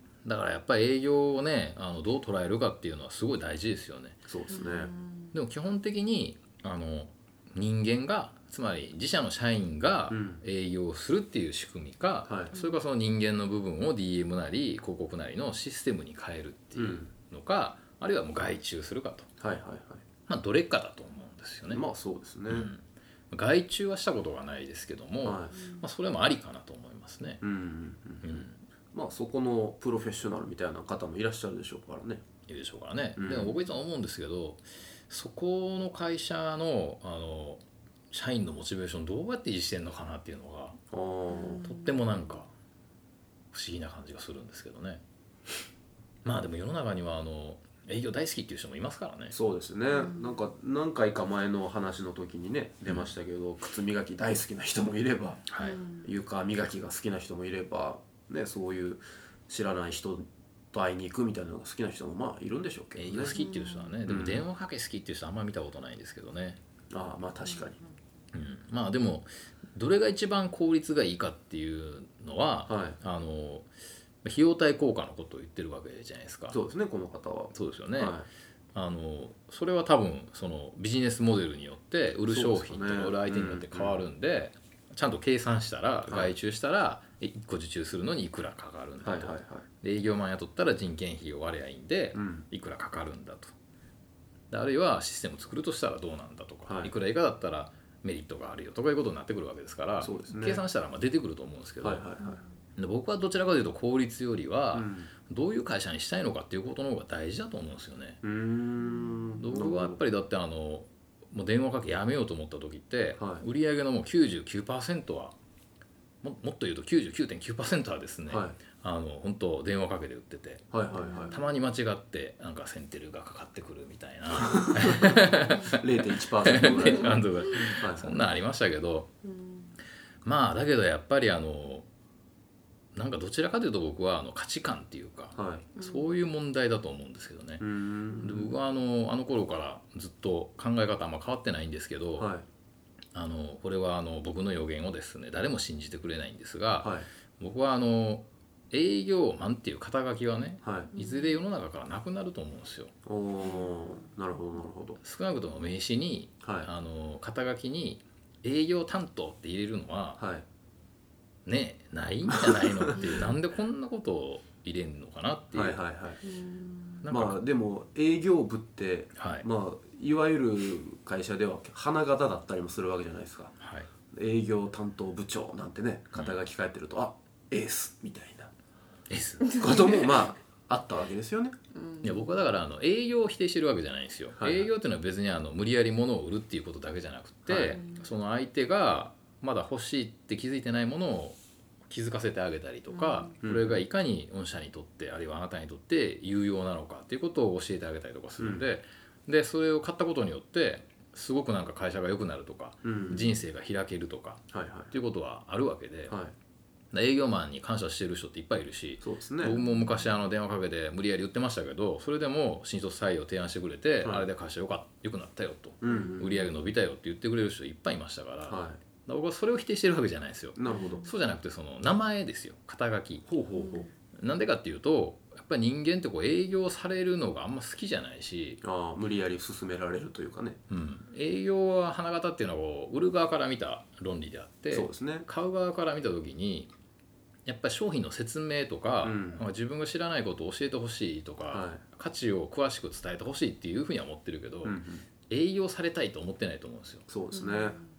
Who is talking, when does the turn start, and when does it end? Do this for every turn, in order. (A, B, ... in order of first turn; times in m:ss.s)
0:00.2-0:04.3 A
0:04.3-0:04.9 B
0:04.5-0:05.3 C
0:05.3-0:19.3 A
0:10.1-0:10.4 B
0:12.3-0:12.6 B
0:16.8-0:17.1 B
0:19.4-0:20.0 B
0:20.3-0:21.9 A
0:21.7-0:22.7 B
0:22.5-0:27.4 A
0:25.2-0:25.6 B
0:27.4-0:32.2 B
0:28.2-0:28.6 A
0:32.5-0:40.8 A
0:33.2-0:33.6 B
0:40.9-0:41.6 B
0:41.3-0:42.2 C
0:41.6-0:42.5 A
0:43.5-0:45.0 A
0:46.2-0:49.4 A
0:49.3-0:55.5 B
0:49.9-0:50.4 C
0:55.5-0:55.8 A
0:55.6-0:56.1 C
0:56.0-1:03.4 B
1:03.0-1:06.6 A
1:03.3-1:03.9 C
1:04.0-1:04.5 B
1:06.9-1:07.8 B
1:08.3-1:13.7 A
1:12.7-1:13.0 B
1:14.2-1:16.6 A
1:16.5-1:18.3 B
1:17.5-1:18.2 A
1:18.8-1:33.5 A
1:22.3-1:24.0 B
1:26.1-1:26.4 B
1:29.0-1:29.6 B
1:32.2-1:32.4 B
1:34.5-1:42.0 A
1:36.7-1:36.9 B
1:40.0-1:40.7 B
1:41.8-1:42.4 B
1:42.8-1:48.2 A
1:44.7-1:45.1 B
1:48.2-1:50.0 B
1:49.4-1:55.4 A
1:53.2-1:53.5 B
1:56.2-2:00.7 A
1:58.3-1:58.6 B
2:00.7-2:01.4 B
2:00.9-2:01.4 C
2:01.3-2:05.9 A
2:04.3-2:08.2 B
2:06.4-2:09.1 A
2:09.3-2:09.7 C
2:10.2-2:11.9 A
2:13.0-2:17.7 A
2:15.4-2:15.7 B
2:15.8-2:16.1 C
2:17.6-2:18.6 B
2:18.2-2:22.3 A
2:22.2-2:22.4 B
2:23.1-2:32.9 A
2:26.8-2:27.1 B
2:30.6-2:31.0 B
2:33.0-2:35.0 B
2:33.5-2:33.7 C
2:35.0-2:40.2 A
2:36.4-2:36.7 B
2:40.2-2:40.4 B
2:41.5-2:45.8 A
2:42.3-2:43.1 B
2:45.5-2:46.2 B
2:46.3-2:46.9 C
2:47.0-2:47.4 A
2:47.1-2:53.5 B
2:49.2-2:49.5 A
2:53.6-2:53.9 A
2:54.1-2:58.5 B
2:59.1-2:59.6 A
2:59.5-3:01.6 B
3:01.8-3:02.4 C
3:02.0-3:26.2 A
3:04.4-3:04.7 B
3:07.5-3:07.8 B
3:07.8-3:08.1 C
3:12.9-3:13.2 C
3:13.4-3:13.8 B
3:18.4-3:18.7 B
3:22.8-3:23.3 B
3:24.5-3:24.9 B
3:26.1-3:26.4 B
3:26.9-3:43.3 A
3:29.0-3:29.6 B
3:34.0-3:34.3 B
3:35.8-3:36.4 B
3:38.5-3:38.8 B
3:40.6-3:41.1 B
3:40.7-3:41.0 C
3:43.3-3:43.9 B
3:44.2-3:48.6 A
3:48.6-3:50.6 B
3:50.7-3:56.7 A
3:54.7-3:55.3 B
3:57.5-4:04.8 A
3:59.0-3:59.4 B
4:01.5-4:01.8 B
4:04.6-4:05.1 B
4:05.3-4:07.1 A
4:07.1-4:07.8 B